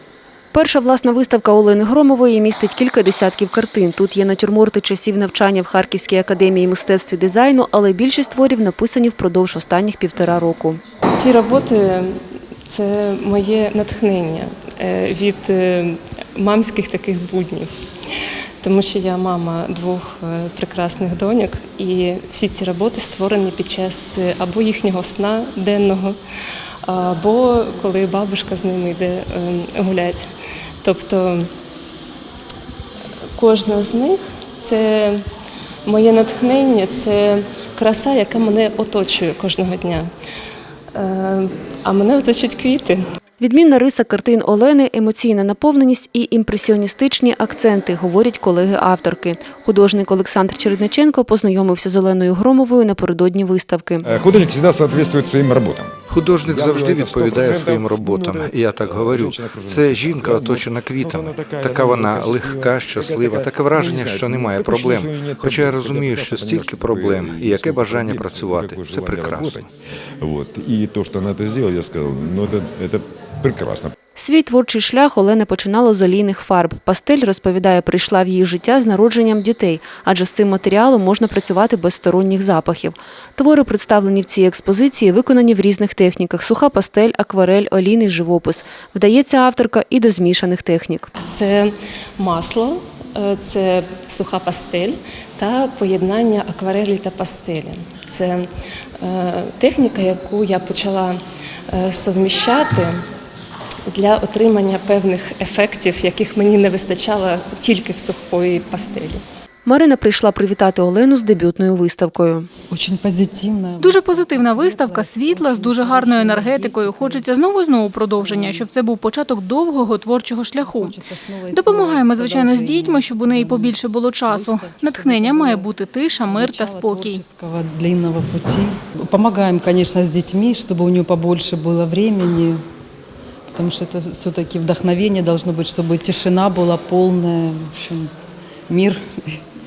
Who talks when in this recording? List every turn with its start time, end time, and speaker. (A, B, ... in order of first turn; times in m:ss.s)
0:00.5-0:10.8 A
0:11.2-0:17.7 B
0:18.6-0:26.2 B
0:26.8-0:30.3 B
0:30.8-0:31.5 B
0:33.4-0:35.2 B
0:35.9-0:40.1 B
0:41.0-0:43.0 B
0:43.4-0:54.0 A
0:54.0-0:55.9 C
0:56.1-1:09.6 D
0:56.4-1:09.7 C
1:10.2-1:13.9 C
1:14.2-1:31.1 A
1:31.2-1:38.5 B
1:39.0-1:41.2 B
1:41.7-1:43.0 B
1:43.9-1:49.2 B
1:49.7-1:52.5 A
1:52.7-1:57.3 E
1:53.8-2:07.2 F
1:58.2-1:58.7 E
2:00.6-2:05.7 E
2:06.2-2:12.6 E
2:13.5-2:18.1 E
2:18.7-2:19.4 E